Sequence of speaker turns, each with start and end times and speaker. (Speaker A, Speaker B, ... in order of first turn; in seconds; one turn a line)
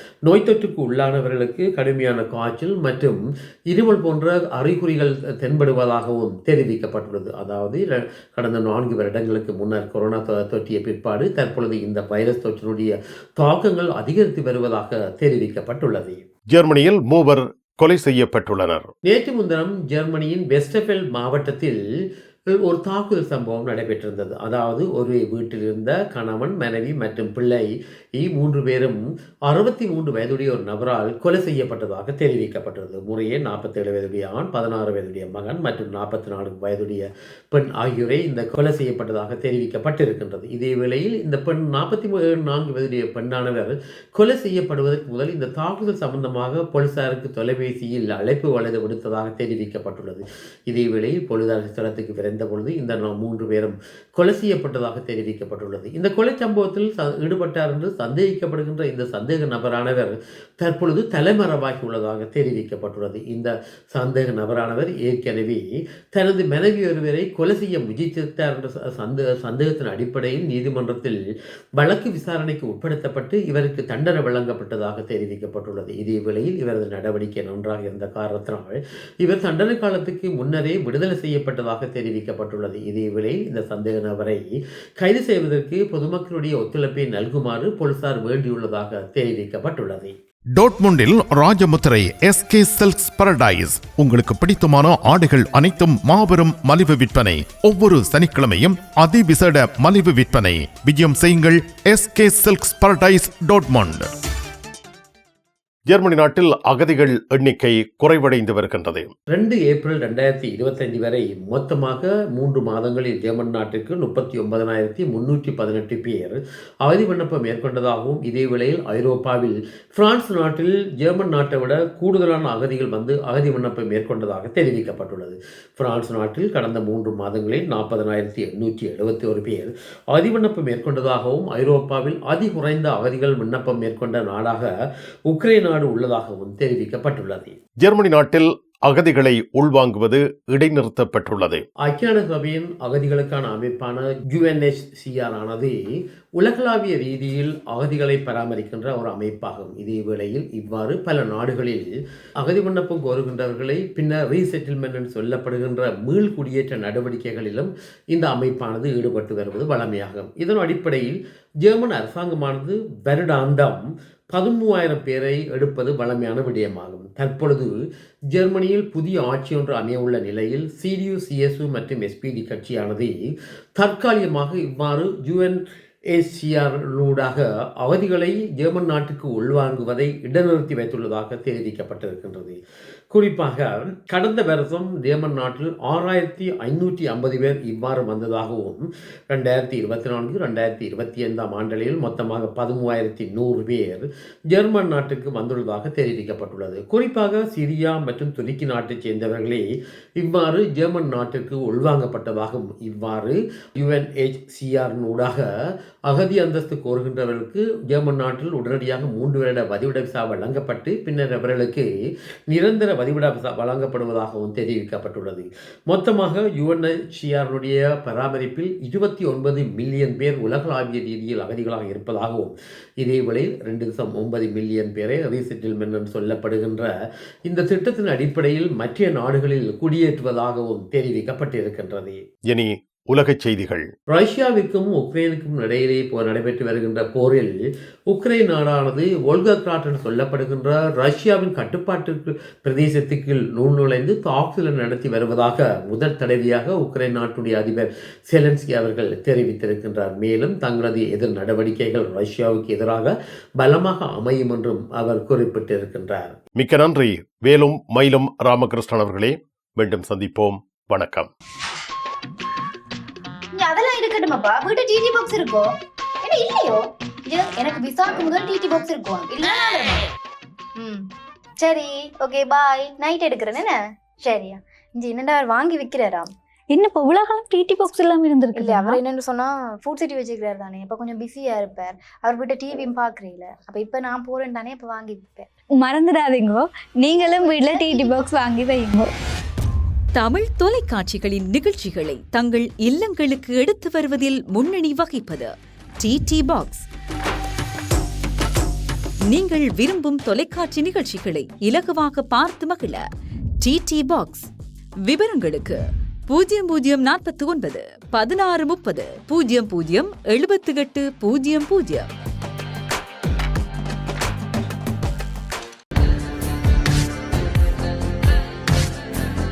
Speaker A: 0.2-16.2
Speaker B: 16.5-18.9
Speaker A: 19.0-21.8
Speaker A: 22.5-71.2
Speaker A: 71.8-84.4
Speaker A: 85.0-90.1
Speaker B: 90.6-104.0
Speaker B: 105.9-109.1
Speaker A: 109.3-134.7
Speaker A: 135.3-137.6
Speaker B: 137.8-141.6
Speaker A: 141.8-145.8
Speaker A: 146.4-151.9
Speaker A: 152.4-167.7
Speaker A: 168.3-173.1
Speaker A: 173.8-182.6
Speaker A: 183.1-199.7
Speaker A: 200.2-205.5
Speaker A: 206.1-211.9
Speaker A: 212.5-226.9
Speaker A: 227.4-232.2
Speaker B: 232.5-233.9
Speaker A: 234.1-237.6
Speaker A: 238.1-256.4
Speaker B: 256.6-261.3
Speaker C: 263.5-270.0
Speaker C: 270.8-276.3
Speaker D: 276.7-279.0
Speaker C: 278.5-285.5
Speaker D: 285.8-289.1
Speaker C: 287.1-288.3
Speaker E: 290.1-296.9
Speaker E: 299.3-303.0
Speaker E: 303.6-304.5
Speaker E: 305.1-312.1